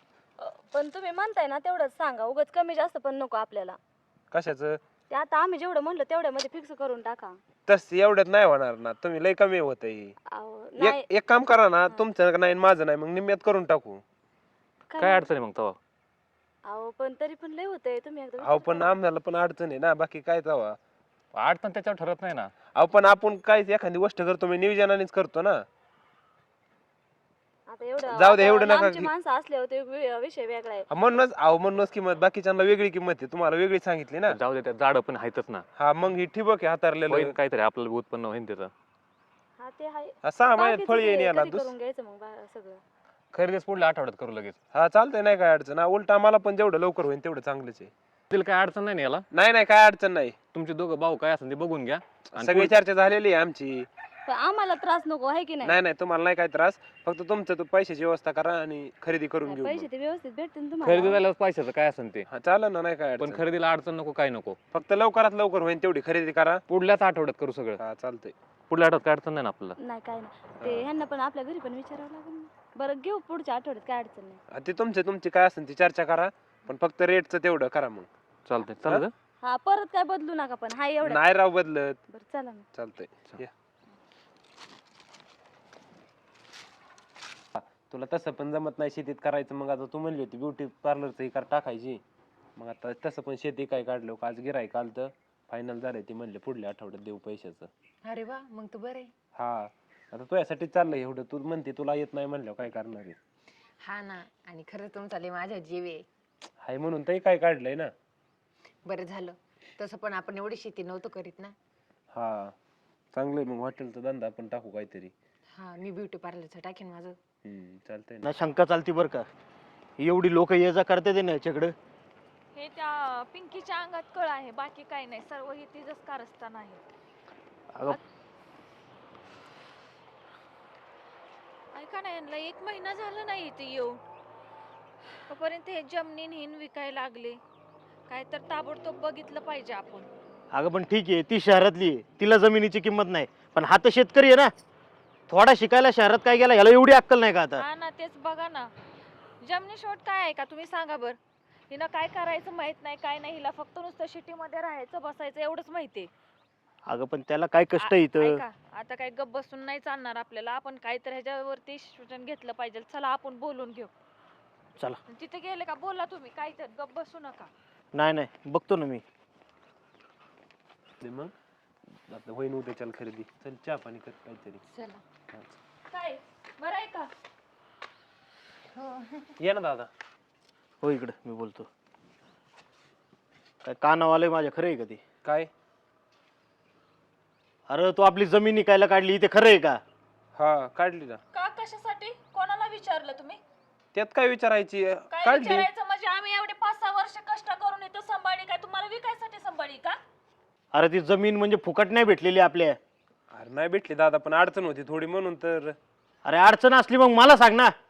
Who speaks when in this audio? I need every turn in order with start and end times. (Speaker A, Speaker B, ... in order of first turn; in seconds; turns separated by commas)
Speaker A: 0.4-3.8, Speaker B: 4.3-4.8, Speaker A: 5.1-7.4, Speaker B: 7.7-10.1, Speaker A: 10.3-11.0, Speaker B: 10.8-14.0, Speaker A: 14.9-15.3, Speaker C: 15.0-15.8, Speaker A: 16.6-19.0, Speaker B: 18.4-20.8, Speaker C: 21.3-22.5, Speaker B: 22.8-25.6, Speaker A: 27.7-30.9, Speaker B: 28.1-29.1, Speaker B: 30.9-34.4, Speaker C: 34.3-35.6, Speaker B: 35.8-37.4, Speaker C: 37.1-38.7, Speaker A: 39.6-42.8, Speaker B: 40.2-41.7, Speaker C: 43.3-44.6, Speaker B: 44.7-47.9, Speaker C: 48.3-49.2, Speaker B: 49.3-50.4, Speaker C: 50.5-52.7, Speaker B: 52.3-53.9, Speaker A: 54.3-55.7, Speaker B: 55.6-59.9, Speaker A: 59.5-61.2, Speaker C: 60.8-62.3, Speaker B: 62.3-63.5, Speaker C: 63.2-64.6, Speaker B: 64.7-66.6, Speaker C: 66.7-67.8, Speaker B: 67.8-68.3, Speaker C: 68.7-69.8, Speaker A: 69.8-74.4, Speaker B: 70.6-70.9, Speaker B: 74.5-78.1, Speaker C: 78.5-79.1, Speaker A: 79.4-81.3, Speaker B: 81.0-82.0, Speaker A: 82.1-82.7, Speaker B: 82.7-83.5, Speaker B: 87.5-92.0, Speaker B: 92.6-97.7, Speaker D: 98.0-99.1, Speaker B: 99.4-103.2, Speaker D: 103.8-106.1, Speaker B: 106.6-107.9, Speaker D: 108.8-111.5, Speaker B: 112.1-112.5, Speaker B: 113.1-115.1, Speaker D: 115.5-117.2, Speaker B: 117.4-118.3, Speaker E: 118.2-119.3, Speaker E: 120.0-121.7, Speaker F: 122.5-126.8, Speaker F: 131.8-134.0, Speaker F: 135.3-137.4, Speaker F: 138.1-140.1, Speaker E: 140.5-144.5, Speaker E: 145.3-147.6, Speaker F: 147.6-148.7, Speaker F: 149.4-151.2, Speaker F: 151.7-156.1, Speaker E: 156.9-158.4, Speaker F: 157.8-163.9, Speaker F: 165.1-167.5, Speaker E: 167.9-169.0, Speaker B: 171.0-171.3, Speaker B: 172.1-174.6, Speaker D: 174.7-175.0, Speaker F: 175.9-177.1, Speaker D: 178.7-179.3, Speaker B: 179.4-179.9, Speaker E: 180.8-181.7, Speaker E: 183.6-185.0, Speaker B: 185.2-185.5, Speaker E: 187.7-189.8, Speaker B: 190.4-191.2, Speaker F: 191.3-193.4, Speaker B: 193.9-195.7, Speaker F: 195.1-200.0, Speaker E: 200.7-202.8, Speaker B: 203.3-205.8, Speaker E: 206.2-207.7